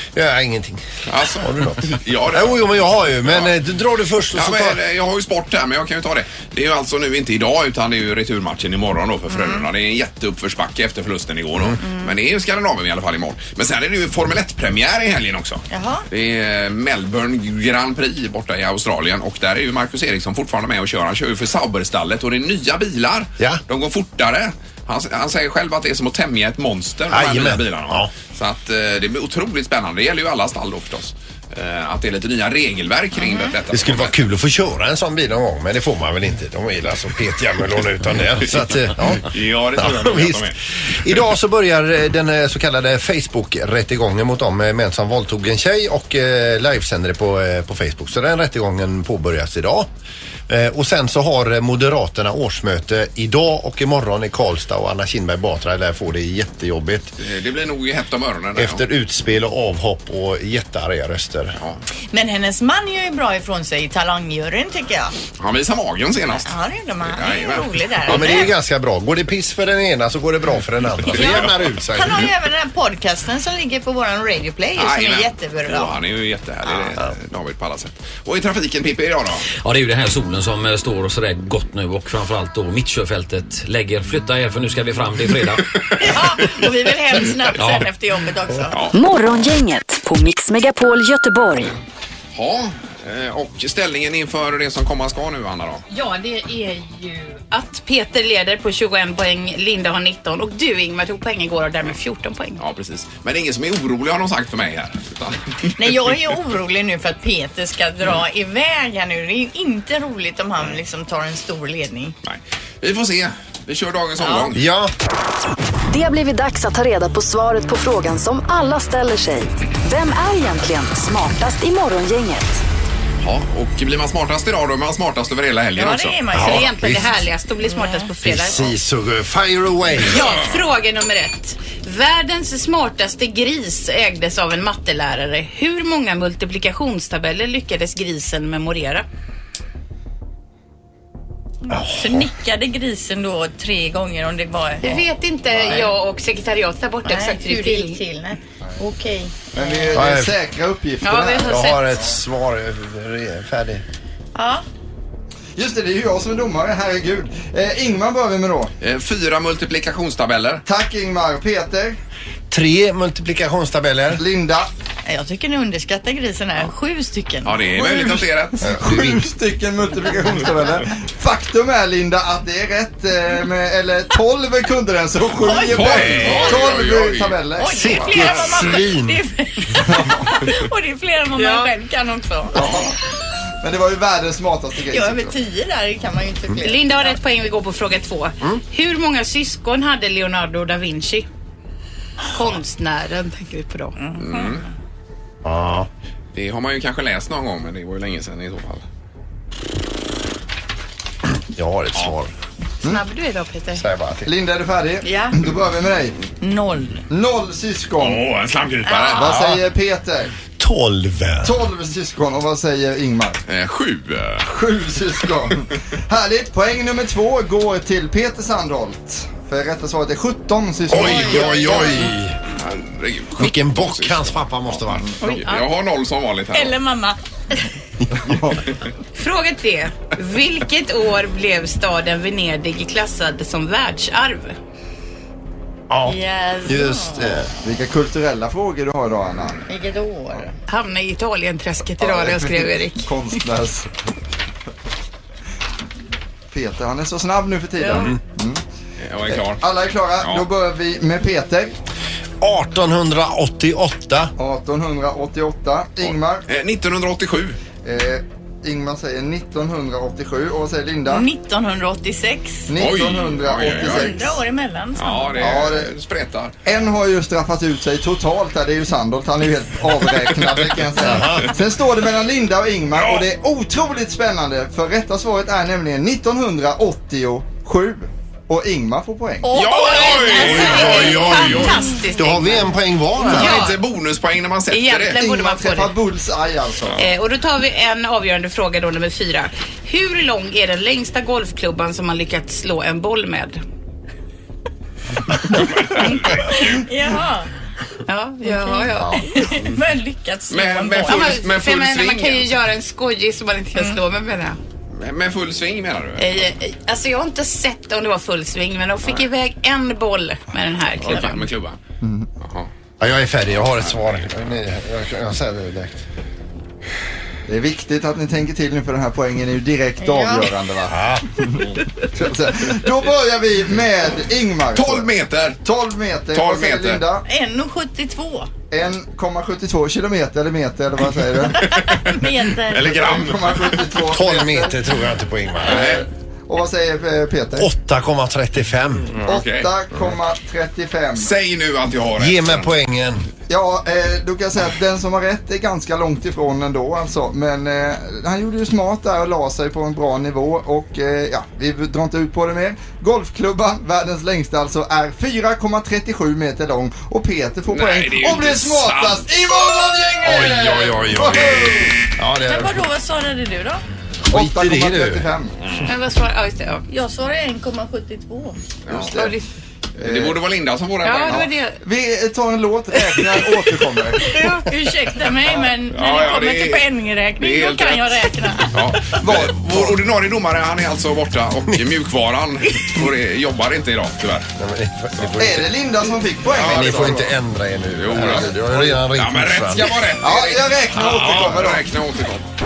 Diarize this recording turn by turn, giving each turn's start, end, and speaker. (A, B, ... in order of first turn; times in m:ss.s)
0:00.1-0:00.8 A
0:01.1-0:02.7 B
0:01.4-0:04.8 A
0:03.2-0:03.5 B
0:04.3-0:34.2 B
0:09.3-0:09.6 C
0:11.8-0:12.1 C
0:15.7-0:16.0 C
0:27.1-0:28.1 A
0:33.2-0:33.5 C
0:33.7-0:49.9 A
0:38.4-0:40.6 B
0:50.5-0:57.1 A
0:57.2-0:58.8 B
0:58.6-1:01.6 A
1:02.1-1:05.1 C
1:05.4-1:06.5 B
1:06.3-1:08.5 C
1:07.0-1:08.3 B
1:08.1-1:12.3 A
1:11.1-1:11.5 B
1:11.1-1:15.9 C
1:14.8-1:19.4 B
1:19.6-1:25.6 D
1:26.0-1:28.8 C
1:27.6-1:27.8 D
1:28.9-1:31.7 E
1:32.3-1:35.8 B
1:35.9-1:42.6 F
1:42.6-1:46.0 B
1:45.8-1:52.1 C
1:52.2-1:54.6 B
1:54.2-1:54.5 C
1:54.5-1:54.9 A
1:55.9-2:02.6 E
2:03.2-2:06.5 B
2:05.8-2:06.8 C
2:06.3-2:07.0 A
2:06.4-2:08.6 F
2:07.7-2:08.0 C
2:08.2-2:10.2 A
2:10.1-2:19.0 F
2:21.7-2:22.3 A
2:21.7-2:25.0 C
2:24.8-2:28.0 F
2:25.6-2:25.9 C
2:27.0-2:29.9 C
2:29.5-2:32.1 G
2:29.9-2:30.3 A
2:31.0-2:31.9 F
2:31.4-2:33.8 A
2:34.4-2:34.6 C
2:35.6-2:38.7 G
2:38.8-2:40.6 B
2:40.6-2:42.0 G
2:42.5-2:44.2 A
2:44.2-2:44.7 G
2:45.0-2:48.2 C
2:47.4-2:48.6 B
2:48.6-2:49.3 A
2:48.6-2:58.0 G
2:55.4-2:56.3 C
2:55.4-2:57.4 B
2:55.9-2:56.4 A
2:57.6-2:59.0 C
2:57.7-2:59.2 A
2:58.1-2:59.8 F
2:59.8-3:00.4 G
3:00.1-3:02.8 C
3:01.2-3:01.9 F
3:02.5-3:03.0 G
3:03.6-3:05.3 G
3:04.9-3:07.2 C
3:06.6-3:11.3 F
3:12.3-3:14.0 F
3:14.0-3:14.5 C
3:14.2-3:14.6 B
3:15.4-3:15.9 A
3:16.3-3:18.8 B
3:21.5-3:22.3 A
3:22.8-3:23.8 C
3:23.7-3:24.3 A
3:24.2-3:26.2 G
3:25.0-3:25.4 C
3:26.4-3:27.0 C
3:27.1-3:28.2 G
3:28.0-3:29.4 B
3:28.8-3:29.2 C
3:29.1-3:30.3 G
3:29.3-3:29.6 A
3:30.6-3:31.6 A
3:31.4-3:33.4 G
3:33.5-3:34.5 B
3:34.4-3:42.0 G
3:40.9-3:42.4 A
3:41.0-3:41.9 C
3:42.5-3:46.8 B
3:43.4-3:45.3 A
3:45.3-3:45.6 F
3:46.5-3:47.2 F
3:48.1-3:48.6 G
3:49.2-3:54.6 F
3:55.9-3:57.5 A
3:56.0-3:57.3 C
3:57.6-3:59.6 G
3:59.7-4:00.6 C
4:00.7-4:03.1 F
4:02.0-4:03.9 G
4:06.5-4:08.6 G
4:09.0-4:09.6 B
4:09.3-4:11.7 G
4:10.2-4:10.5 B
4:12.4-4:14.3 A
4:14.4-4:16.4 G
4:16.0-4:17.6 B
4:17.8-4:21.2 G
4:21.1-4:22.7 C
4:22.7-4:24.4 G
4:22.8-4:24.2 B
4:23.6-4:25.6 C
4:25.0-4:26.5 B
4:25.4-4:25.9 G
4:26.6-4:39.6 G
4:31.0-4:31.5 A
4:31.1-4:31.5 B
4:32.9-4:33.3 B
4:39.4-4:42.5 C
4:39.5-4:41.8 B
4:39.9-4:42.6 F
4:40.3-4:43.7 A
4:43.2-4:45.2 B
4:43.2-4:43.8 F
4:44.7-4:45.9 F
4:45.1-4:47.0 G
4:47.0-4:53.6 F
4:55.5-4:56.8 B
4:56.0-4:57.2 F
4:56.9-4:57.4 C
4:58.1-5:04.6 F
4:58.4-4:58.8 C
5:00.5-5:02.6 B
5:04.9-5:06.5 B
5:06.2-5:11.5 F
5:11.0-5:11.8 B
5:12.0-5:12.3 G
5:12.4-5:12.7 B
5:13.0-5:16.0 A
5:13.6-5:14.2 B
5:17.5-5:25.1 G
5:20.0-5:20.5 C
5:20.9-5:21.2 A
5:24.7-5:25.6 B
5:25.6-5:27.2 G
5:26.3-5:27.0 B
5:27.2-5:28.5 C
5:28.7-5:31.8 G
5:31.6-5:33.8 B
5:31.9-5:33.0 C
5:32.7-5:34.8 G
5:34.1-5:36.0 A
5:35.6-5:36.0 B
5:35.6-5:37.7 G
5:37.5-5:39.2 A
5:39.2-5:39.7 B
5:39.2-5:41.3 G
5:41.2-5:42.7 B
5:42.2-5:43.3 A
5:43.5-6:02.1 G
5:57.7-5:59.3 B
6:00.2-6:02.8 A
6:02.4-6:03.8 C
6:04.3-6:05.3 A
6:04.3-6:05.5 G
6:05.6-6:05.9 B
6:05.8-6:06.8 F
6:06.9-6:08.6 C
6:08.9-6:09.2 B
6:08.9-6:09.4 G
6:09.1-6:09.4 F
6:10.0-6:11.5 B
6:10.0-6:10.4 G
6:11.0-6:11.8 F
6:11.3-6:14.4 G
6:14.3-6:15.3 F
6:14.5-6:18.7 C
6:15.9-6:24.5 B
6:19.1-6:20.0 G
6:24.6-6:25.7 A
6:25.4-6:27.3 G
6:26.5-6:30.0 A
6:26.5-6:27.3 B
6:28.0-6:28.5 B
6:28.1-6:28.9 G
6:29.0-6:32.4 B
6:30.2-6:31.9 G